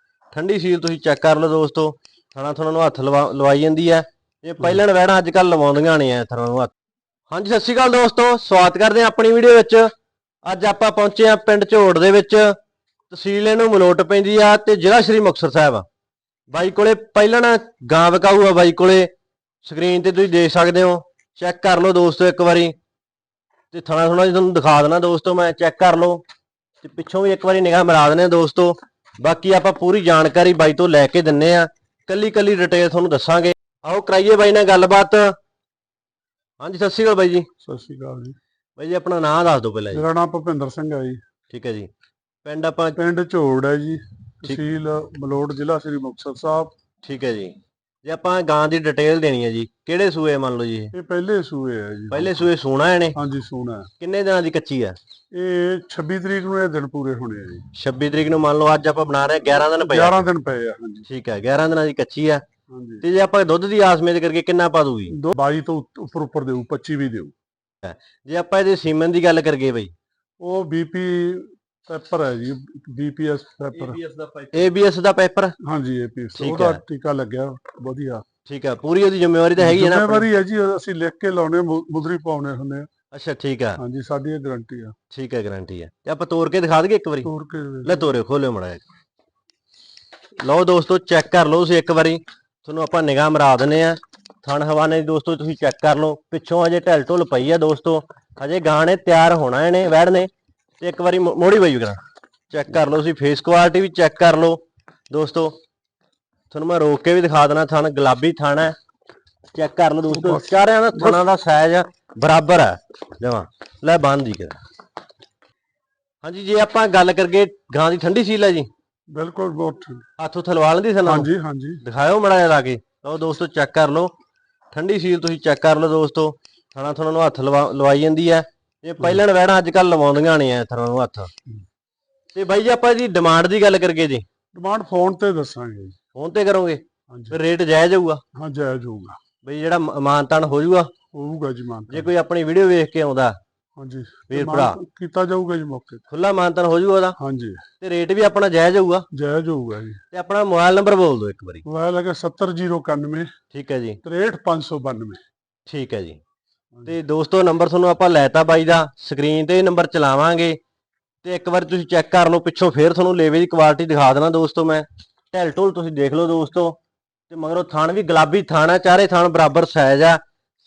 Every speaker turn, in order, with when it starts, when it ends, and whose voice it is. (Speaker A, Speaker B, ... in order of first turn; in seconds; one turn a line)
Speaker A: 0.3-6.7
Speaker A: 7.3-9.9
Speaker A: 10.4-12.6
Speaker A: 13.1-15.8
Speaker A: 16.5-19.1
Speaker A: 19.6-22.7
Speaker A: 23.7-26.2
Speaker A: 26.8-35.3
Speaker A: 36.6-37.5
Speaker B: 37.6-38.4
Speaker A: 38.8-40.0
Speaker B: 39.9-41.2
Speaker A: 41.5-41.9
Speaker A: 42.4-43.0
Speaker B: 43.0-46.7
Speaker A: 47.0-50.9
Speaker B: 50.9-52.5
Speaker A: 52.1-53.2
Speaker B: 53.1-53.9
Speaker A: 54.0-55.0
Speaker B: 55.3-57.7
Speaker A: 57.7-60.2
Speaker B: 59.5-61.1
Speaker A: 61.1-62.4
Speaker B: 62.7-63.0
Speaker A: 63.0-65.1
Speaker B: 65.1-67.3
Speaker A: 67.8-69.9
Speaker B: 70.4-74.0
Speaker A: 74.5-75.5
Speaker B: 75.6-78.2
Speaker A: 76.3-76.8
Speaker A: 78.5-80.3
Speaker B: 79.6-82.9
Speaker A: 83.1-83.8
Speaker B: 83.8-84.9
Speaker A: 85.1-87.3
Speaker B: 87.2-88.1
Speaker A: 87.8-88.8
Speaker A: 90.4-102.0
Speaker A: 102.5-104.6
Speaker A: 105.1-105.5
Speaker A: 106.5-108.7
Speaker A: 109.5-114.6
Speaker B: 110.1-111.2
Speaker A: 116.2-118.7
Speaker B: 119.1-120.0
Speaker A: 120.2-121.3
Speaker B: 121.0-121.8
Speaker A: 121.8-124.1
Speaker A: 124.7-131.3
Speaker A: 132.3-134.2
Speaker B: 134.6-135.9
Speaker A: 136.1-138.2
Speaker B: 137.1-137.4
Speaker B: 138.3-139.2
Speaker A: 139.4-140.9
Speaker B: 141.1-142.1
Speaker A: 141.9-143.4
Speaker B: 143.8-146.0
Speaker A: 144.3-144.8
Speaker A: 146.1-147.2
Speaker B: 147.2-147.6
Speaker A: 147.8-149.1
Speaker B: 149.1-150.0
Speaker A: 150.1-151.6
Speaker B: 151.7-153.3
Speaker A: 153.5-154.0
Speaker B: 154.0-155.2
Speaker A: 155.7-156.2
Speaker A: 156.9-160.6
Speaker A: 161.2-166.8
Speaker A: 167.3-170.2